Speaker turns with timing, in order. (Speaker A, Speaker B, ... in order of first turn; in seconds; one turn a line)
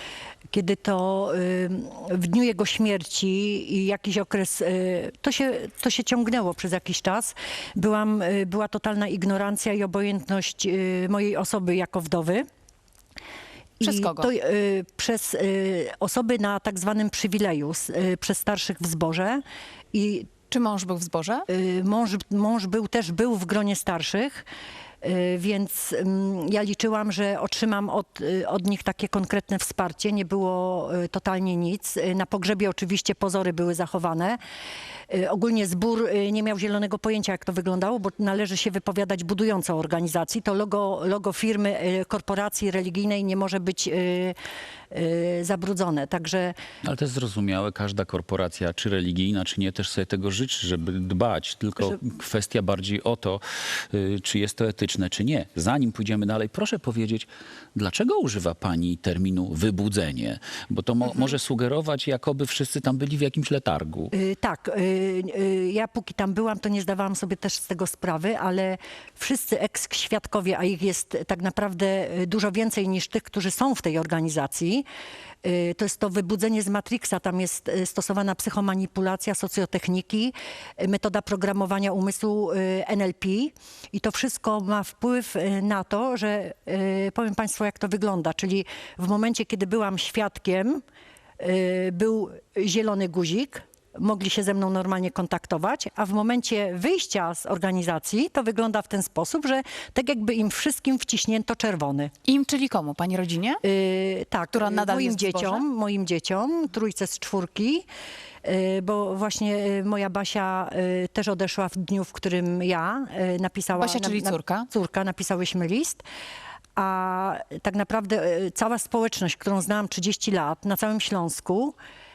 Speaker A: 0.5-12.4
Speaker A: 13.8-19.4
Speaker B: 13.8-14.3
Speaker A: 19.9-20.3
Speaker B: 20.5-21.5
Speaker A: 21.5-24.5
Speaker A: 25.0-34.4
Speaker A: 35.1-44.4
Speaker A: 44.9-46.5
Speaker C: 46.8-64.1
Speaker A: 64.1-74.8
Speaker A: 75.4-90.8
Speaker A: 91.4-102.1
Speaker B: 102.2-103.6
Speaker A: 103.6-107.8
Speaker B: 104.5-105.6
Speaker A: 108.4-116.0
Speaker B: 113.8-114.7
Speaker A: 116.8-121.8